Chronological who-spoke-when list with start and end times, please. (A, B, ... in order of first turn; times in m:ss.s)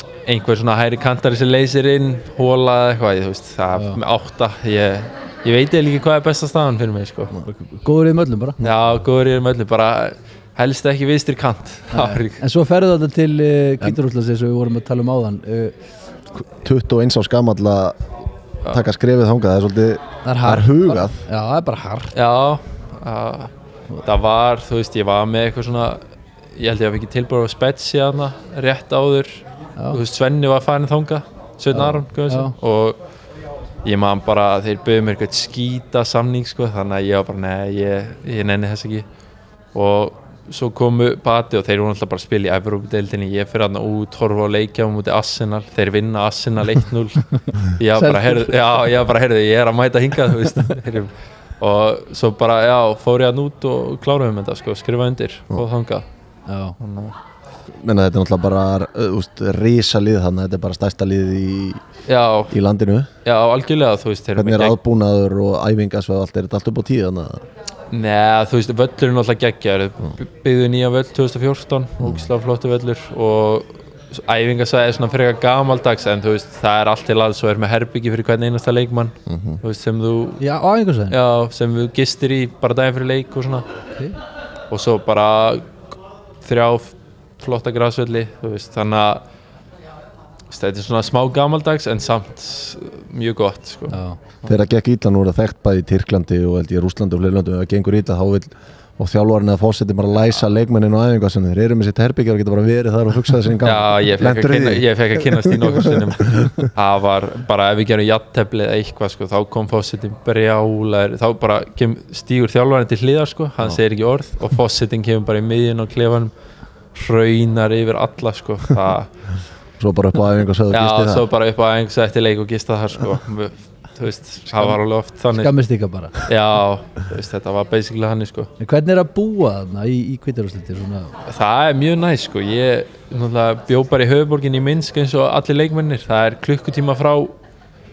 0:00.3-0:07.3 A
0:03.8-0:04.0 B
0:07.4-0:08.6 B
0:08.6-0:12.4 A
0:11.9-0:16.5 B
0:16.6-0:18.0 C
0:18.6-0:21.3 C
0:20.2-0:22.1 B
0:22.1-0:23.5 A
0:24.0-0:26.0 A
0:26.6-0:33.0 A
0:31.7-0:32.5 B
0:33.8-0:39.0 A
0:39.7-0:56.1 A
0:48.0-0:48.5 B
0:56.5-0:56.8 B
0:56.8-0:57.1 A
0:57.7-1:01.8 C
1:02.1-1:02.6 A
1:02.5-1:03.1 C
1:03.2-1:04.8 A
1:04.4-1:07.4 C
1:07.9-1:20.4 A
1:12.0-1:12.3 C
1:19.3-1:19.6 C
1:20.4-1:21.2 B
1:21.1-1:23.6 A
1:24.7-1:25.8 A
1:26.4-1:29.2 A
1:30.5-1:34.0 A
1:33.9-1:34.2 B
1:34.4-1:46.7 C
1:43.6-1:56.3 A
1:56.9-1:59.4 A
1:59.8-2:01.3 C
2:00.7-2:05.6 A
2:05.3-2:06.2 B
2:06.2-2:08.5 A
2:08.6-2:11.1 B
2:11.3-2:17.4 A